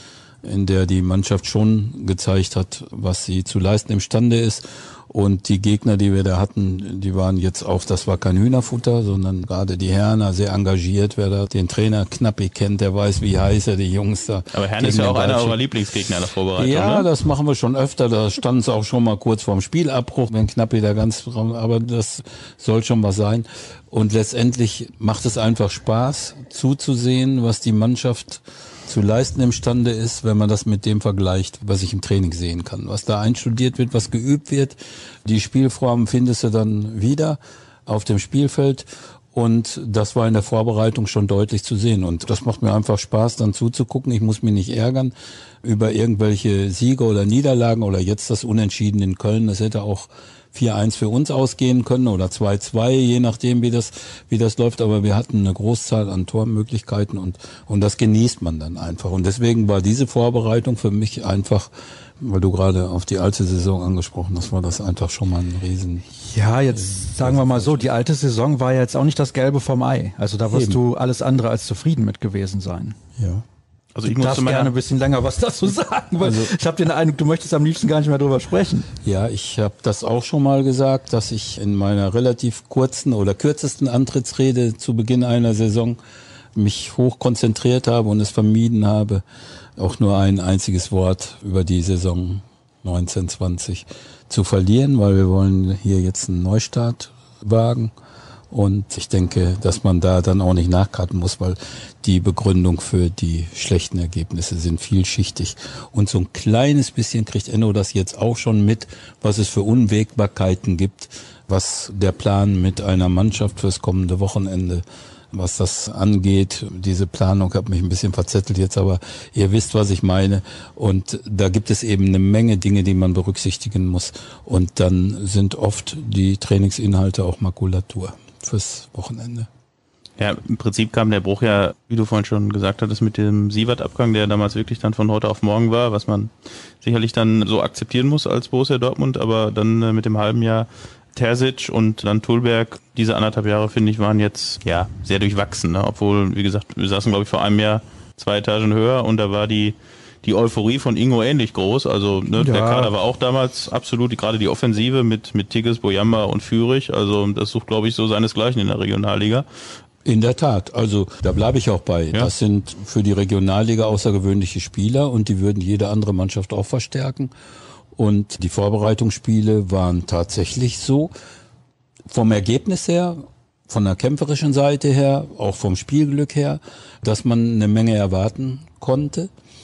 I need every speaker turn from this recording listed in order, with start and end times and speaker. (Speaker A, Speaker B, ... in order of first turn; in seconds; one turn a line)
Speaker A: 0.4-15.6
Speaker B: 14.5-17.1
Speaker A: 16.6-66.0
Speaker C: 66.2-73.0
Speaker A: 66.8-67.9
Speaker A: 70.5-70.8
Speaker A: 73.2-73.4
Speaker B: 73.9-74.7
Speaker C: 74.1-78.9
Speaker A: 76.2-76.5
Speaker A: 79.0-86.0
Speaker A: 86.5-89.2
Speaker A: 89.8-97.9
Speaker A: 98.5-129.5
Speaker B: 130.2-159.4
Speaker C: 152.4-152.9
Speaker A: 160.0-167.3
Speaker A: 167.9-171.1
Speaker A: 172.1-179.3